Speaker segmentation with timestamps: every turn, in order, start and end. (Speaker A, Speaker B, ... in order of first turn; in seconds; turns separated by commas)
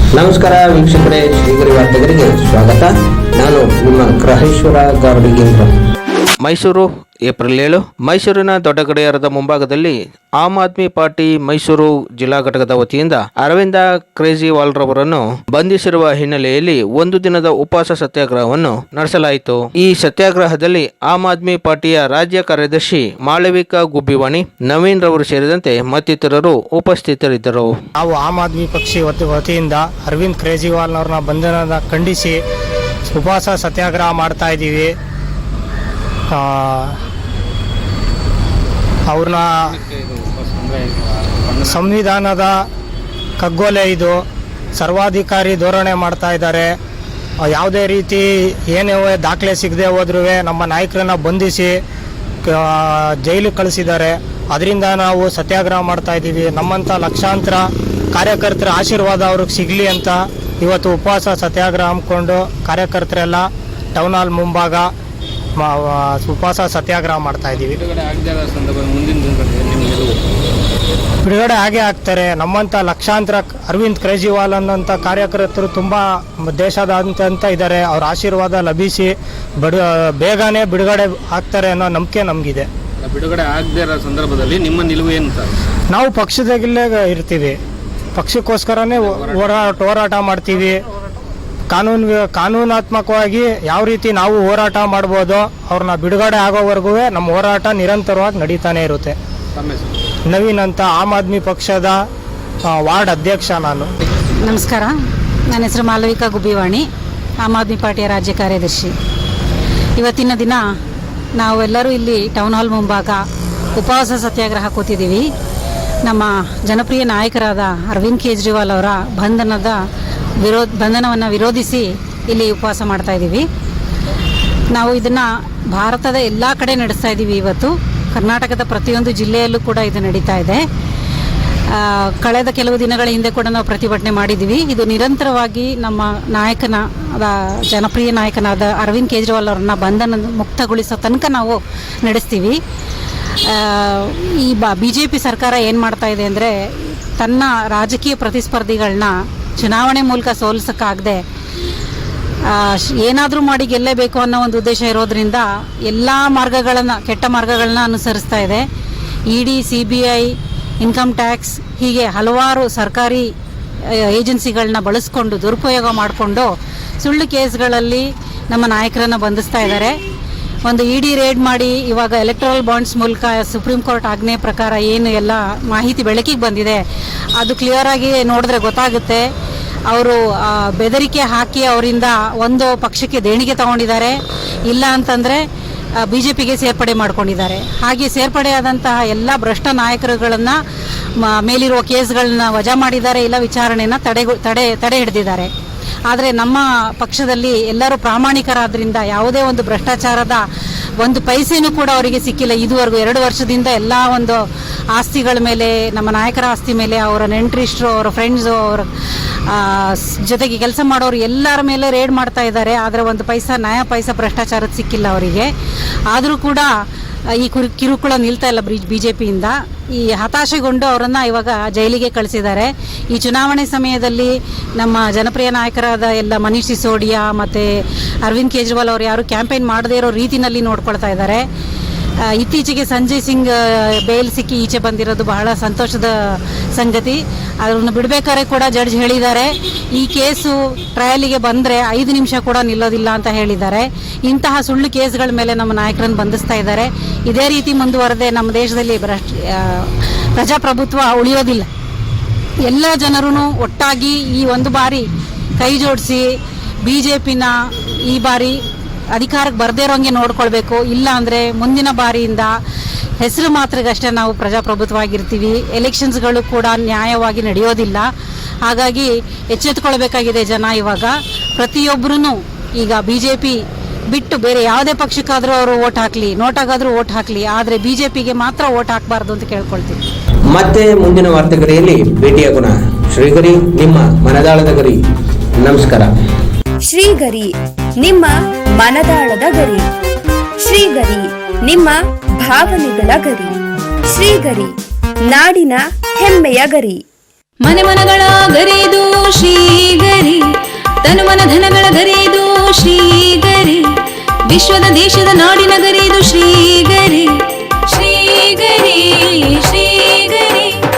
Speaker A: 0.1-5.7, Speaker B: 6.4-27.7, Speaker C: 28.0-32.4, Speaker C: 33.1-34.9, Speaker C: 36.3-37.0, Speaker C: 39.1-39.6, Speaker D: 39.7-41.8, Speaker C: 41.7-42.5, Speaker C: 43.4-44.2, Speaker C: 44.8-46.7, Speaker C: 47.5-51.8, Speaker C: 52.5-64.9, Speaker C: 65.6-67.8, Speaker D: 67.6-70.2, Speaker C: 71.2-82.7, Speaker D: 83.0-85.5, Speaker C: 85.9-87.5, Speaker C: 88.1-90.8, Speaker C: 91.7-99.2, Speaker D: 99.5-99.9, Speaker C: 100.3-102.0, Speaker C: 102.7-103.8, Speaker E: 104.4-104.9, Speaker E: 105.5-106.8, Speaker E: 107.4-108.9, Speaker E: 110.0-110.6, Speaker E: 111.3-113.2, Speaker E: 113.7-115.3, Speaker E: 116.0-119.8, Speaker E: 120.4-123.5, Speaker E: 124.7-130.6, Speaker E: 131.7-142.6, Speaker E: 143.4-151.2, Speaker E: 152.4-158.7, Speaker E: 159.3-163.3, Speaker E: 163.9-166.5, Speaker E: 167.0-170.0, Speaker E: 170.6-176.8, Speaker E: 177.4-179.3, Speaker E: 179.9-184.2, Speaker E: 184.7-185.4, Speaker E: 186.0-190.6, Speaker E: 191.2-195.5, Speaker E: 196.1-200.4, Speaker E: 201.0-208.9, Speaker E: 209.4-215.5, Speaker E: 216.1-216.7, Speaker E: 217.3-231.5, Speaker E: 232.2-251.7, Speaker E: 252.6-255.1, Speaker E: 255.6-256.3, Speaker E: 256.8-258.6, Speaker E: 259.1-262.5, Speaker E: 263.2-268.1, Speaker E: 268.6-273.6, Speaker E: 274.1-280.0, Speaker A: 280.5-284.9, Speaker A: 285.6-286.1, Speaker F: 286.9-289.8, Speaker F: 290.6-293.6, Speaker F: 294.1-294.7, Speaker F: 295.3-297.0, Speaker G: 297.6-300.4, Speaker G: 301.0-303.8, Speaker G: 304.5-307.3, Speaker G: 307.9-310.8